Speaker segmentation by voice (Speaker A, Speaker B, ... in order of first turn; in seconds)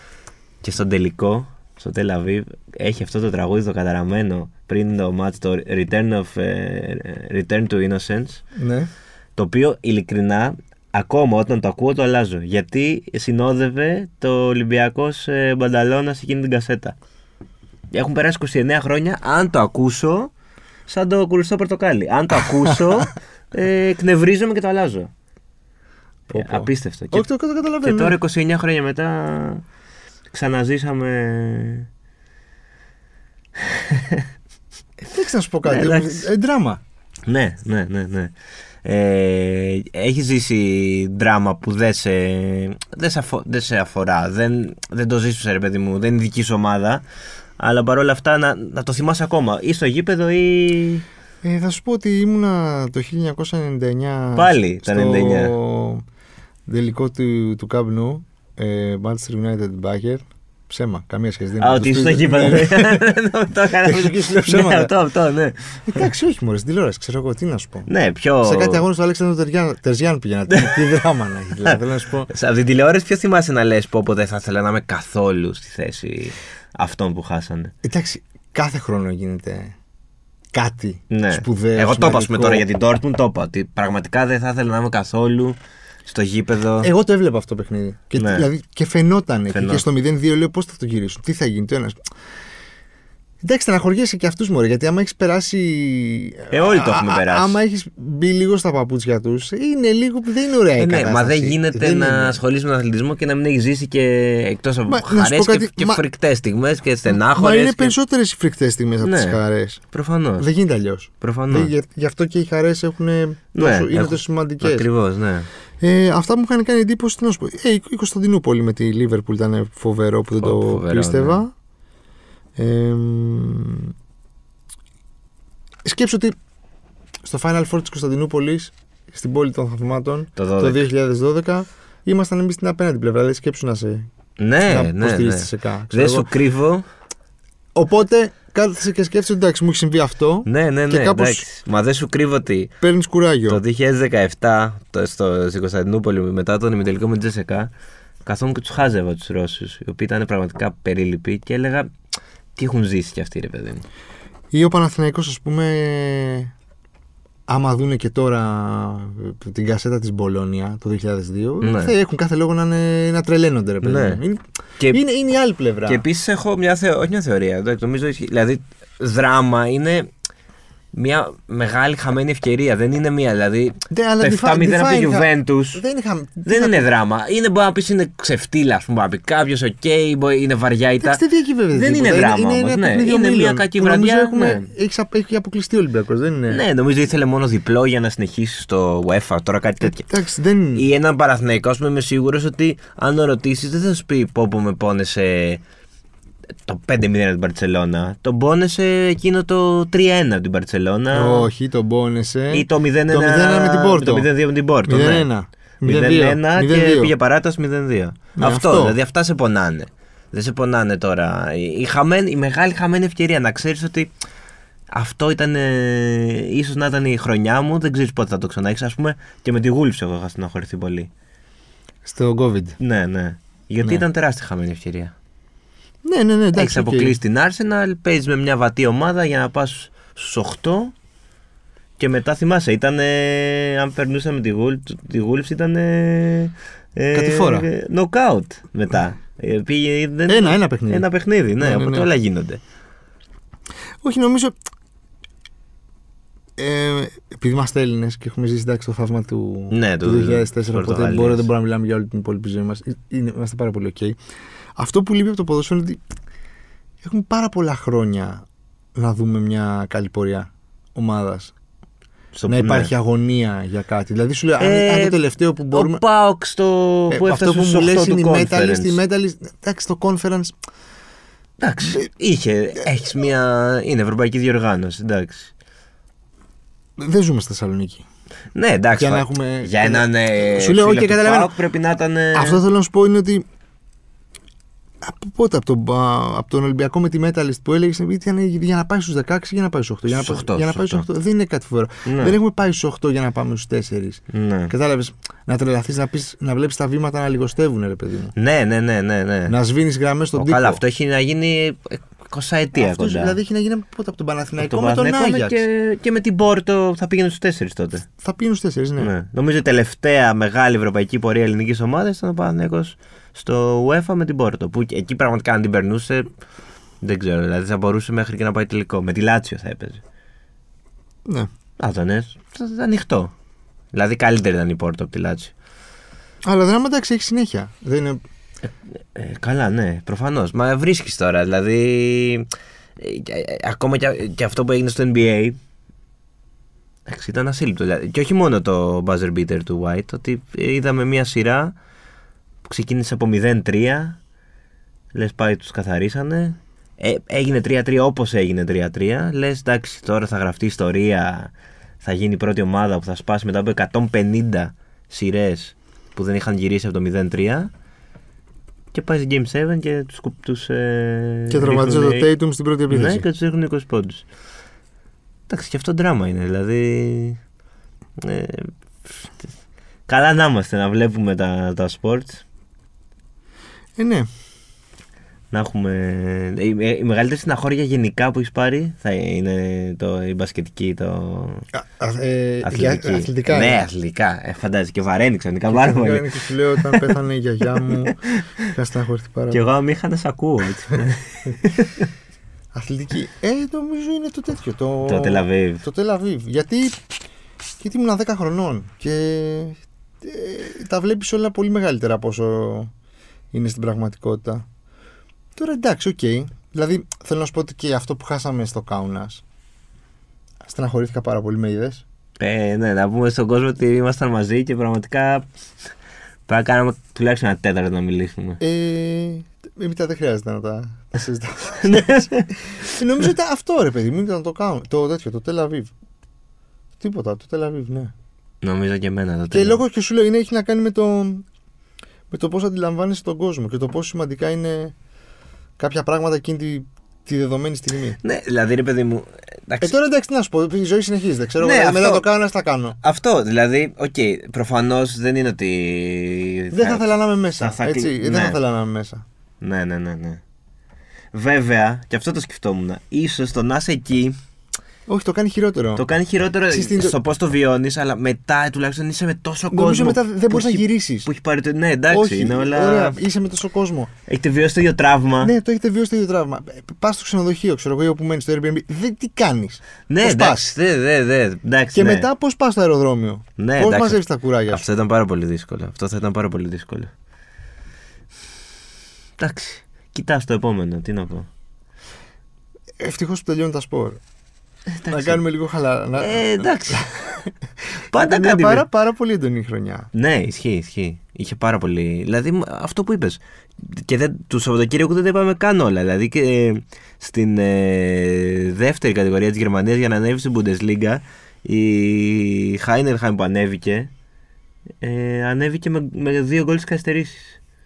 Speaker A: 0.6-8.4, 9.3-16.9, 17.9-20.3, 20.9-25.1, 26.3-27.3, 27.8-29.6, 30.3-31.9, 33.6-34.3, 35.6-36.3, 37.2-38.3, 38.8-47.0, 47.6-51.0, 54.3-55.5, 61.6-66.1, 67.9-68.8, 71.6-77.7, 81.1-86.9, 88.2-88.5, 89.5-89.8, 96.5-97.6, 100.8-107.9, 109.0-109.4, 109.9-110.5, 111.2-111.7, 113.5-115.5, 120.4-121.4, 130.4-130.8, 134.4-136.8, 140.4-142.7, 143.5-147.7, 148.2-151.9, 152.6-153.8, 161.6-161.9, 163.8-164.2, 165.8-170.1, 170.9-175.8, 176.4-181.2, 181.7-184.7, 186.5-190.1, 190.7-195.6, 196.7-201.5, 202.5-205.3, 205.8-214.1, 214.9-221.1, 222.8-225.1, 226.6-230.9, 232.0-242.6, 249.7-251.5, 262.3-262.9, 264.6-265.2, 265.7-269.0, 271.6-275.5, 278.5-282.6, 290.1-291.1, 292.1-292.4, 294.3-294.7, 298.4-299.5, 300.3-303.4, 304.6-308.1, 309.0-316.3, 317.0-320.0, 321.8-323.3, 323.9-325.5, 328.6-335.6, 337.1-341.8, 342.6-344.2, 345.1-357.7, 358.9-362.3, 362.9-364.2, 365.5-367.4, 368.2-369.3, 370.1-372.4, 375.5-381.6, 382.6-387.1, 387.8-388.4, 389.5-392.1, 395.1-395.8, 412.4-415.5, 416.5-418.6, 421.8-422.4, 428.6-429.8, 438.2-439.9, 441.6-442.2, 443.0-448.6, 449.6-450.4, 451.3-454.4, 455.9-463.2, 464.3-465.5, 470.1-472.2, 473.6-477.1, 479.4-481.5, 484.9-485.4, 486.2-487.1, 488.1-488.9, 490.1-504.1, 505.0-507.6
Speaker B: 8.6-8.9, 26.3-28.2, 35.1-36.8, 51.4-56.0, 56.7-63.1, 63.8-64.9, 65.9-67.9, 68.4-72.3, 77.8-79.7, 80.5-82.7, 86.8-92.0, 93.4-102.4, 104.9-106.0, 107.1-109.8, 110.4-114.8, 115.8-121.5, 122.6-123.9, 125.8-126.3, 127.2-134.1, 134.7-136.3, 137.7-141.4, 142.8-143.6, 154.5-156.5, 157.5-166.0, 173.9-176.9, 181.0-186.6, 189.8-190.8, 201.1-204.3, 204.9-207.1, 208.3-209.0, 222.0-222.8, 226.0-227.2, 237.1-237.7, 240.3-241.1, 241.6-242.1, 244.0-244.5, 246.6-254.2, 254.8-256.0, 257.0-258.4, 258.9-261.5, 262.5-266.0, 267.1-270.5, 277.0-278.0, 279.0-281.5, 282.3-283.4, 285.0-298.3, 299.5-300.8, 302.7-305.6, 308.2-309.1, 326.4-328.2, 361.5-363.2, 374.0-374.3, 381.7-383.9, 385.7-389.6, 392.7-397.0, 397.8-402.9, 403.5-404.6, 405.6-409.4, 410.6-412.0, 418.6-425.9, 427.0-428.1, 429.5-431.4, 432.3-434.9, 435.8-438.2, 439.8-443.0, 446.7-449.2, 455.1-456.0, 456.7-457.1, 459.7-461.3, 462.1-464.1, 465.4-470.7, 471.9-474.8, 483.0-484.2, 485.1-490.1